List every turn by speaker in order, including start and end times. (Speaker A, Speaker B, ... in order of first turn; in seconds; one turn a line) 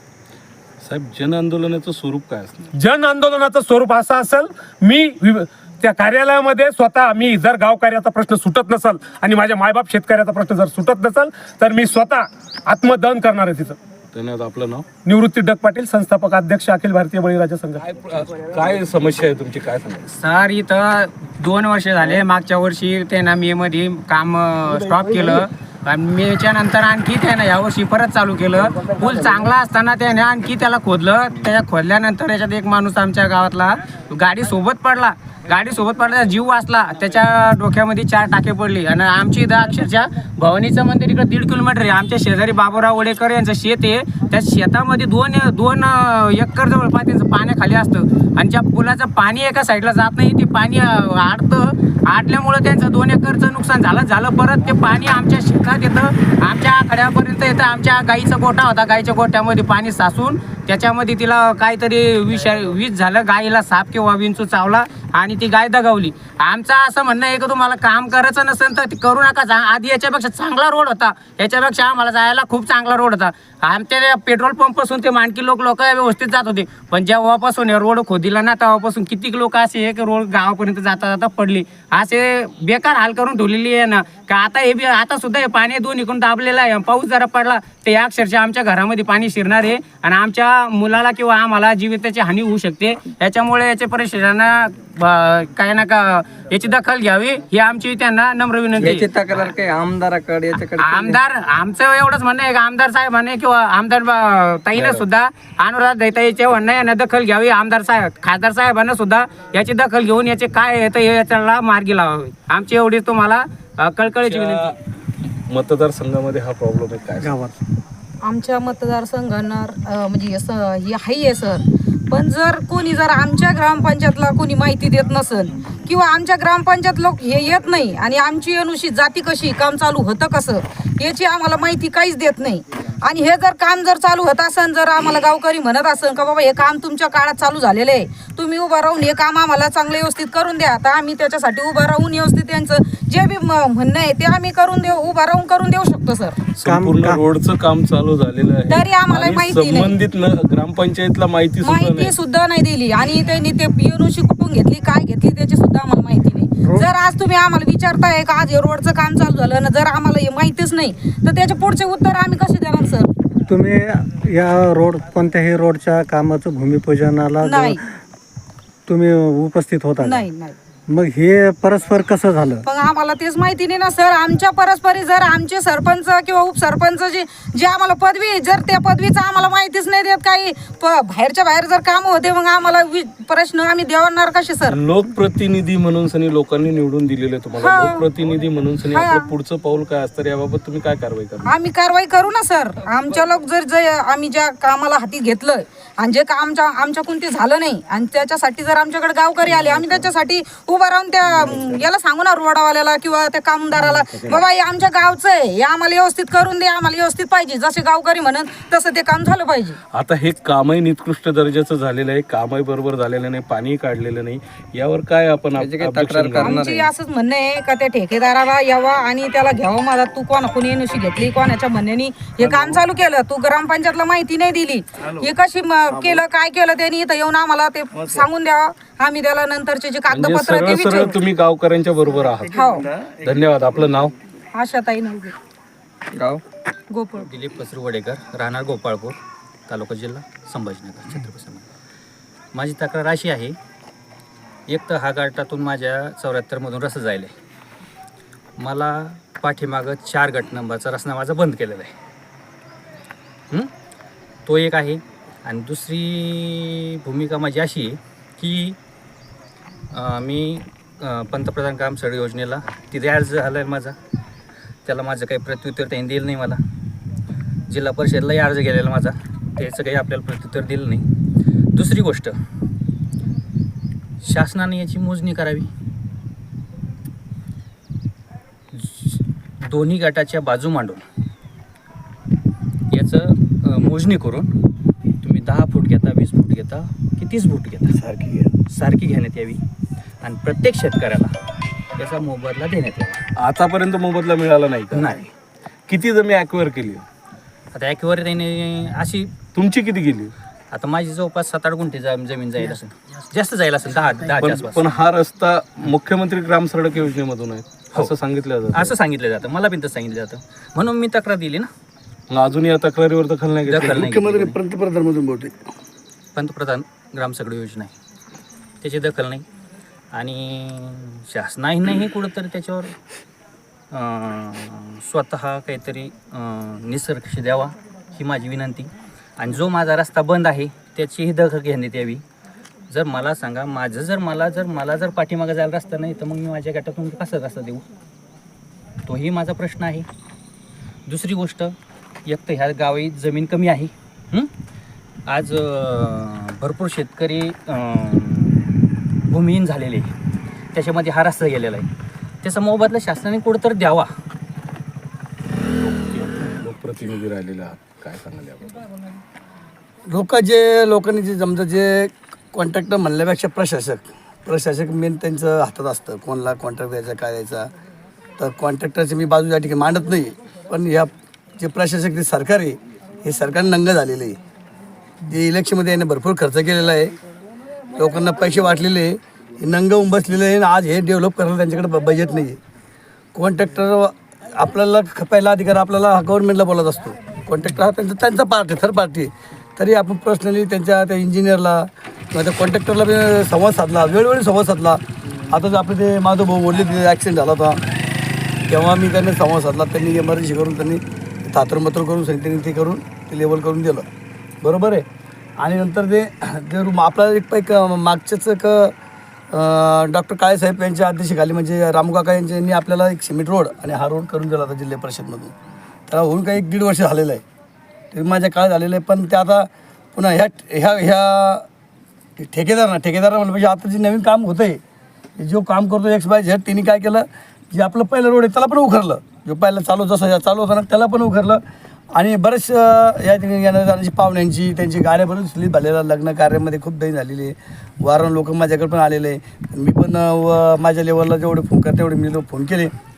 Speaker A: 0.8-2.7
Speaker B: 2.8-13.8
Speaker A: 14.1-14.9
Speaker B: 15.0-17.8
Speaker A: 17.8-20.1
Speaker C: 20.2-99.1
Speaker D: 98.7-101.2
Speaker C: 100.5-114.7
Speaker A: 104.7-105.0
Speaker A: 114.2-114.7
Speaker A: 115.5-117.5
Speaker E: 117.2-117.5
Speaker F: 118.2-146.4
Speaker A: 146.5-152.1
Speaker E: 146.7-147.2
Speaker F: 148.7-150.0
Speaker F: 151.6-163.1
Speaker E: 163.5-167.7
Speaker F: 167.4-167.8
Speaker E: 168.9-170.2
Speaker F: 170.0-170.6
Speaker E: 170.9-172.6
Speaker F: 172.6-184.8
Speaker A: 184.7-191.6
Speaker F: 187.6-188.1
Speaker F: 188.9-189.3
Speaker F: 191.4-209.8
Speaker A: 209.9-216.6
Speaker D: 215.5-216.9
Speaker F: 216.3-231.2
Speaker G: 227.9-228.3
Speaker A: 230.1-232.6
Speaker F: 232.5-232.9
Speaker G: 232.7-233.2
Speaker A: 233.2-234.1
Speaker F: 234.5-235.3
Speaker D: 236.1-236.4
Speaker F: 236.9-237.3
Speaker H: 237.2-241.7
Speaker H: 242.5-243.6
Speaker H: 244.7-247.3
Speaker H: 248.6-251.9
Speaker H: 254.5-258.8
Speaker H: 259.9-264.0
Speaker H: 264.9-266.6
Speaker H: 267.7-271.0
Speaker H: 271.7-272.3
Speaker H: 274.2-275.7
Speaker H: 278.7-281.0
Speaker H: 282.9-284.5
Speaker H: 285.2-288.0
Speaker G: 287.9-288.5
Speaker H: 288.7-289.6
Speaker H: 290.2-291.4
Speaker H: 292.0-293.2
Speaker A: 293.4-295.2
Speaker H: 294.9-295.3
Speaker A: 295.9-297.0
Speaker H: 297.7-299.3
Speaker A: 299.5-300.3
Speaker H: 300.7-304.9
Speaker A: 304.4-308.9
Speaker H: 308.7-311.7
Speaker A: 312.3-314.1
Speaker H: 313.7-314.6
Speaker G: 313.8-315.5
Speaker H: 316.4-317.9
Speaker H: 318.8-319.4
Speaker H: 320.1-322.9
Speaker H: 323.9-332.2
Speaker H: 332.9-337.9
Speaker H: 339.1-340.1
Speaker H: 341.1-341.8
Speaker H: 342.2-344.5
Speaker H: 345.3-348.8
Speaker H: 349.3-350.1
Speaker H: 350.7-351.9
Speaker H: 352.4-354.1
Speaker A: 355.8-358.8
Speaker G: 360.1-367.7
Speaker G: 368.4-374.4
Speaker G: 375.2-377.1
Speaker G: 377.9-382.6
Speaker G: 383.4-397.8
Speaker G: 398.7-404.1
Speaker G: 404.6-405.1
Speaker G: 405.6-408.9
Speaker G: 409.5-415.5
Speaker G: 416.1-417.4
Speaker G: 418.1-421.6
Speaker G: 422.4-424.8
Speaker G: 425.4-431.6
Speaker G: 432.1-442.9